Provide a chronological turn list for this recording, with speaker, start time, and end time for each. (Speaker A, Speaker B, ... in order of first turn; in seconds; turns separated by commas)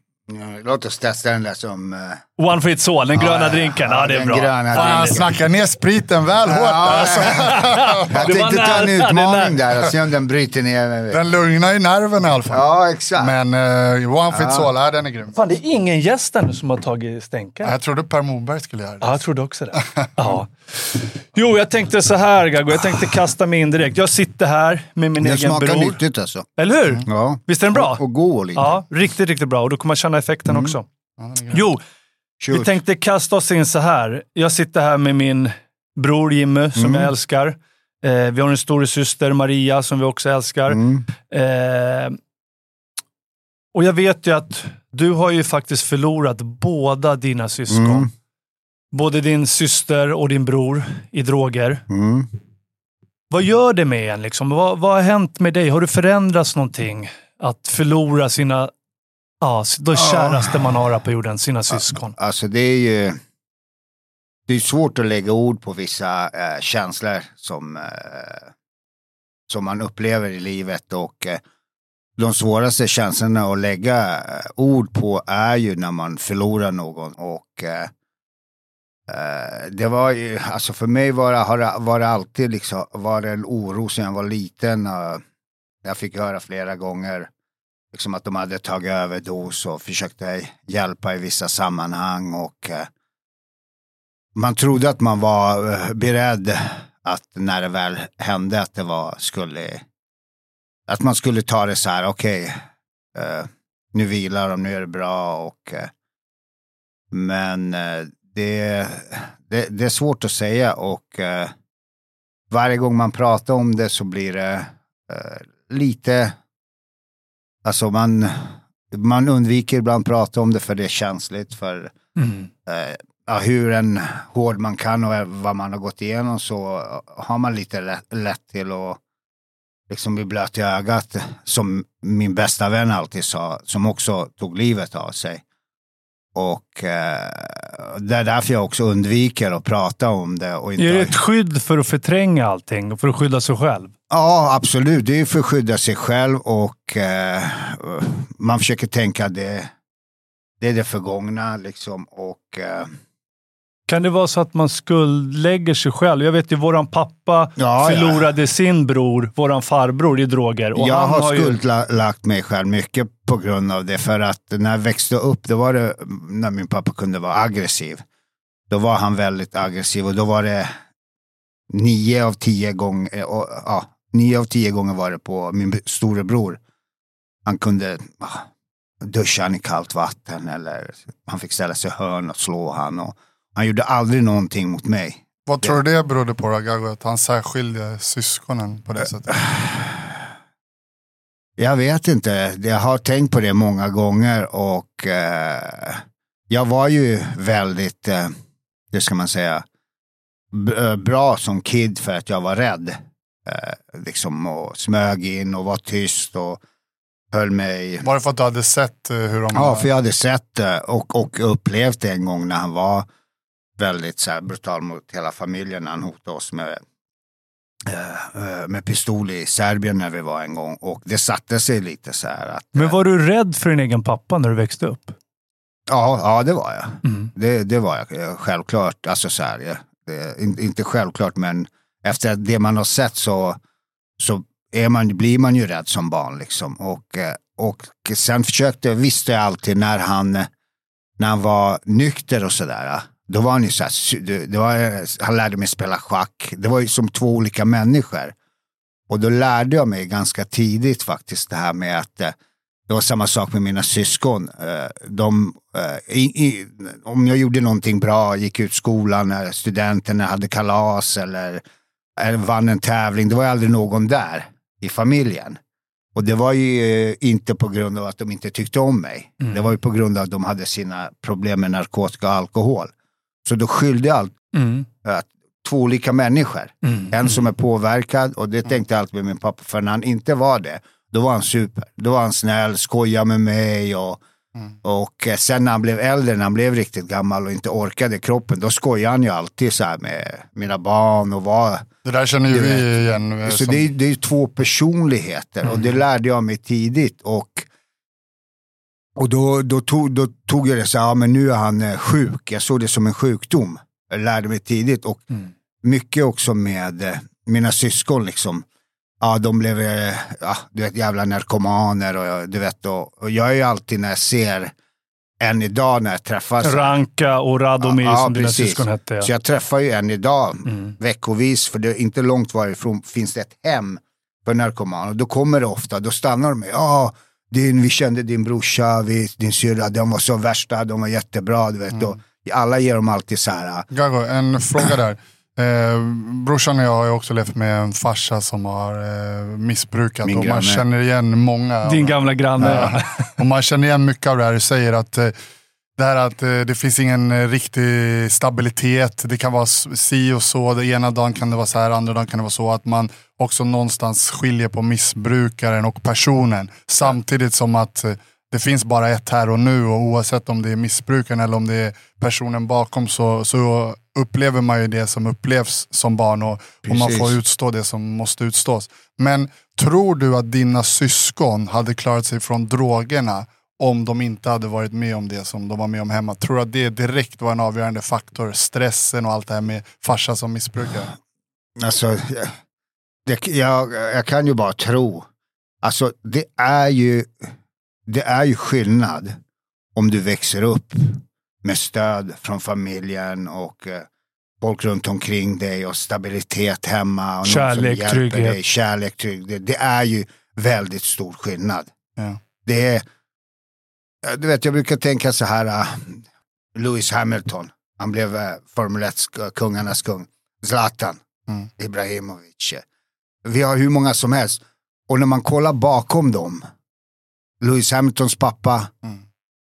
Speaker A: 0.3-2.2, Speaker B: 2.4-5.2, Speaker A: 3.1-5.3, Speaker C: 4.7-8.3, Speaker A: 6.5-11.2, Speaker B: 7.2-9.6, Speaker C: 11.1-12.6, Speaker A: 12.5-13.3, Speaker C: 13.2-15.3, Speaker A: 14.3-14.7, Speaker B: 15.3-17.7, Speaker C: 17.6-19.1, Speaker B: 19.0-26.0, Speaker C: 19.9-20.3, Speaker A: 25.2-26.5, Speaker B: 26.6-28.0, Speaker A: 27.1-28.7, Speaker B: 28.6-30.8, Speaker A: 30.5-30.7, Speaker C: 31.2-31.6, Speaker B: 31.5-31.8, Speaker A: 32.4-32.7, Speaker B: 32.5-42.2, Speaker A: 36.8-37.1, Speaker A: 40.7-41.0, Speaker B: 43.7-48.0, Speaker A: 47.7-48.1, Speaker B: 48.9-51.8, Speaker A: 51.9-52.3, Speaker B: 53.3-58.7, Speaker B: 59.4-62.1, Speaker A: 60.0-60.5, Speaker A: 61.7-63.2, Speaker A: 64.5-68.5, Speaker A: 69.5-71.4, Speaker A: 72.2-77.9, Speaker A: 79.1-85.2, Speaker A: 85.8-87.3, Speaker A: 87.9-92.9, Speaker A: 94.3-99.8, Speaker A: 100.9-102.6, Speaker A: 103.1-105.9, Speaker A: 107.1-111.5, Speaker A: 112.5-116.3, Speaker A: 117.6-121.9, Speaker B: 122.2-122.5, Speaker A: 122.7-129.0, Speaker A: 129.9-135.4, Speaker A: 136.3-141.2, Speaker B: 140.8-143.9, Speaker A: 144.1-149.7, Speaker A: 150.6-152.9, Speaker B: 153.9-161.6, Speaker A: 157.6-158.2, Speaker A: 160.8-168.0, Speaker A: 168.7-170.7, Speaker A: 171.7-176.6, Speaker A: 177.4-178.5, Speaker A: 179.0-185.8, Speaker C: 185.4-189.4, Speaker A: 189.3-189.9, Speaker A: 191.6-198.3, Speaker A: 198.9-199.6, Speaker A: 200.5-206.6, Speaker A: 207.3-208.1, Speaker C: 208.0-209.9, Speaker A: 209.5-213.1, Speaker A: 213.8-216.8, Speaker A: 217.8-222.9, Speaker B: 222.7-225.1, Speaker A: 225.9-233.6, Speaker A: 234.2-240.5, Speaker A: 241.2-248.3, Speaker A: 249.1-252.3, Speaker A: 252.9-261.6, Speaker A: 262.2-265.6, Speaker A: 266.1-272.9, Speaker A: 273.4-274.3, Speaker B: 274.5-274.9, Speaker A: 275.0-284.2, Speaker B: 276.8-277.3, Speaker A: 284.8-291.9, Speaker C: 292.0-293.9, Speaker A: 292.5-292.9, Speaker A: 293.4-297.7, Speaker A: 299.2-305.2, Speaker A: 305.8-308.6, Speaker A: 309.2-314.7, Speaker A: 315.4-316.9, Speaker B: 316.6-319.3, Speaker A: 317.8-333.9, Speaker C: 333.9-345.3, Speaker A: 340.2-340.8, Speaker B: 341.8-343.3, Speaker C: 346.0-381.1, Speaker A: 366.8-367.3, Speaker A: 381.8-382.6, Speaker A: 383.2-385.3, Speaker A: 385.8-387.5, Speaker A: 388.1-389.4, Speaker A: 389.9-394.1, Speaker A: 394.6-401.9, Speaker B: 397.4-398.6, Speaker A: 402.6-403.0, Speaker A: 404.2-406.2, Speaker A: 406.7-411.2, Speaker A: 411.8-412.8, Speaker A: 413.4-416.6, Speaker A: 417.6-418.9